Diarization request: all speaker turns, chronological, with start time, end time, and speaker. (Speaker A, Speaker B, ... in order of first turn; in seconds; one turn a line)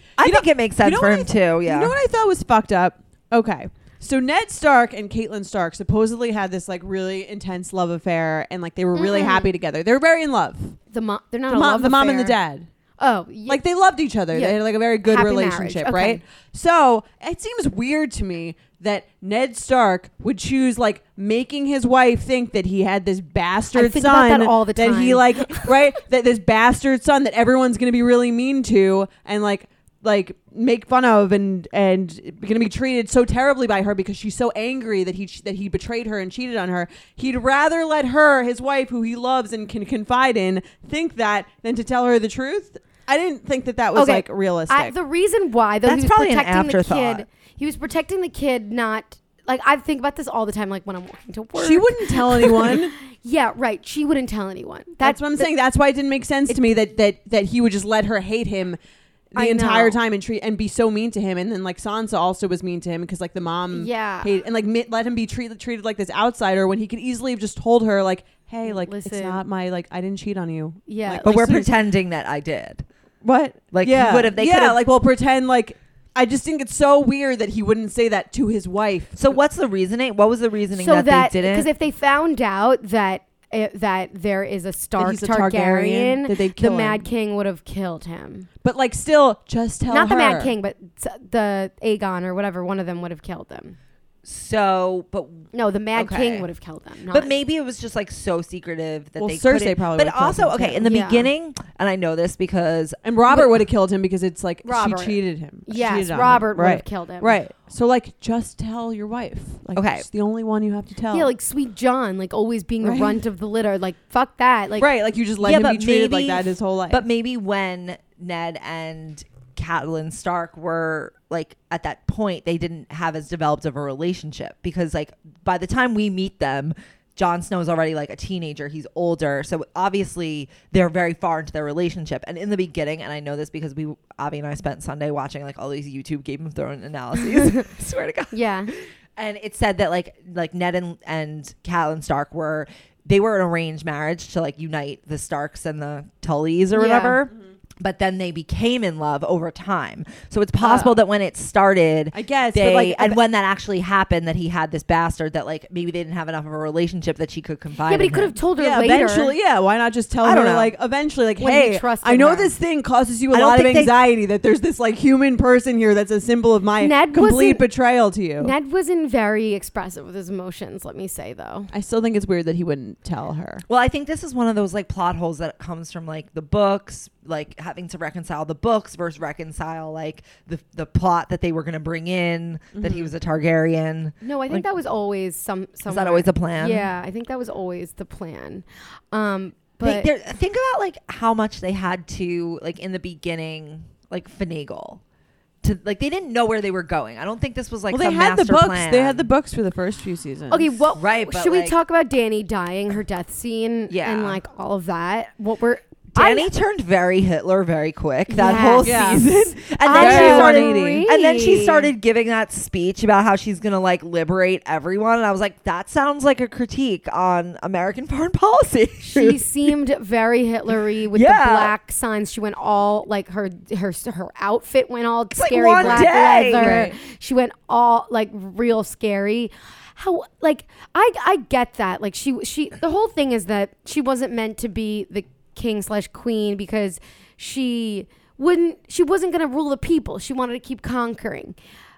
Speaker A: 0.2-1.9
Speaker B: 0.2-10.8
Speaker C: 8.9-9.5
Speaker C: 10.9-12.4
Speaker B: 11.5-12.7
Speaker C: 13.0-13.6
Speaker B: 13.5-44.9
Speaker C: 14.3-16.2
Speaker C: 23.7-25.7
Speaker C: 43.9-55.5
Speaker A: 45.8-47.2
Speaker B: 51.5-52.9
Speaker B: 55.0-58.8
Speaker C: 59.4-60.0
Speaker B: 59.4-71.7
Speaker C: 63.7-64.3
Speaker C: 68.6-69.4
Speaker C: 70.9-71.3
Speaker A: 71.2-72.8
Speaker B: 73.2-79.3
Speaker A: 73.7-74.8
Speaker A: 79.2-81.7
Speaker C: 80.7-88.5
Speaker B: 85.0-87.0
Speaker B: 88.6-90.5
Speaker C: 89.9-93.8
Speaker A: 94.2-96.5
Speaker C: 95.5-97.4
Speaker A: 97.1-103.0
Speaker B: 99.2-100.8
Speaker C: 100.8-101.3
Speaker B: 103.0-111.3
Speaker C: 104.6-107.4
Speaker A: 109.7-110.1
Speaker C: 111.1-114.9
Speaker B: 112.8-113.2
Speaker B: 114.8-117.0
Speaker A: 115.4-158.4
Speaker C: 138.3-138.7
Speaker C: 146.7-147.2
Speaker B: 152.1-153.2
Speaker C: 157.9-159.3
Speaker B: 158.6-168.5
Speaker A: 160.2-160.7
Speaker C: 161.4-162.5
Speaker A: 163.3-163.9
Speaker C: 166.8-167.6
Speaker C: 168.4-171.7
Speaker B: 171.7-173.6
Speaker A: 173.7-184.7
Speaker B: 182.7-183.1
Speaker C: 184.2-190.1
Speaker A: 185.9-186.9
Speaker A: 189.8-195.0
Speaker A: 195.6-199.3
Speaker B: 197.9-200.7
Speaker C: 200.5-206.5
Speaker A: 201.0-201.8
Speaker A: 203.9-204.4
Speaker A: 206.1-219.4
Speaker C: 208.3-211.9
Speaker B: 208.8-211.0
Speaker C: 219.0-241.6
Speaker A: 221.1-221.7
Speaker A: 225.3-226.8
Speaker B: 225.8-226.9